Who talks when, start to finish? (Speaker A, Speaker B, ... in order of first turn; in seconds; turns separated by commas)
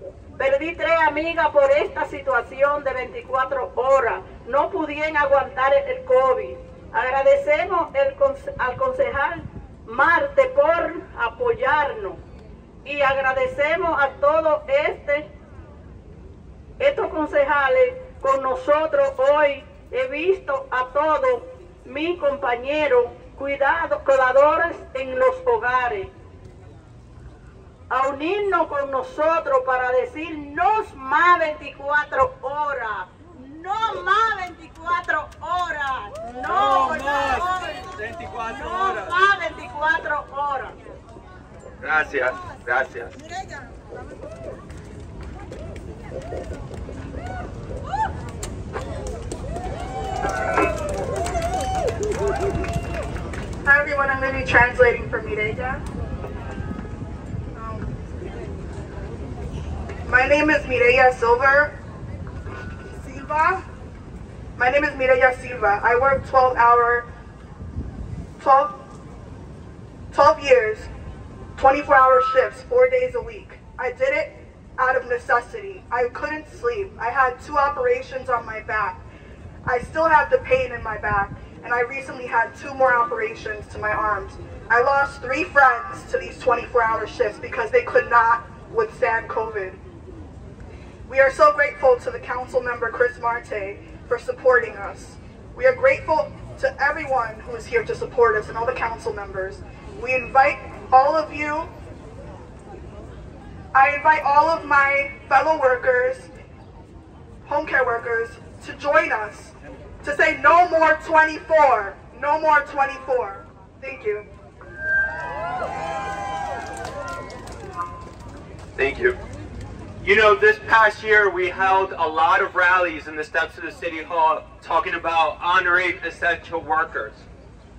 Speaker A: 0.4-12.2, Speaker A: 12.8-15.3, Speaker A: 16.8-26.1, Speaker A: 27.9-37.9, Speaker B: 36.4-39.1, Speaker A: 38.5-40.8, Speaker B: 41.8-43.1, Speaker C: 53.6-55.8, Speaker C: 57.5-58.0, Speaker C: 60.1-61.8, Speaker C: 63.0-63.6, Speaker C: 64.6-67.1, Speaker C: 68.4-68.8, Speaker C: 70.1-70.9, Speaker C: 71.6-79.0, Speaker C: 79.6-89.8, Speaker C: 91.1-101.7, Speaker C: 103.7-106.3, Speaker C: 107.4-114.3, Speaker B: 118.8-119.2, Speaker B: 120.0-127.2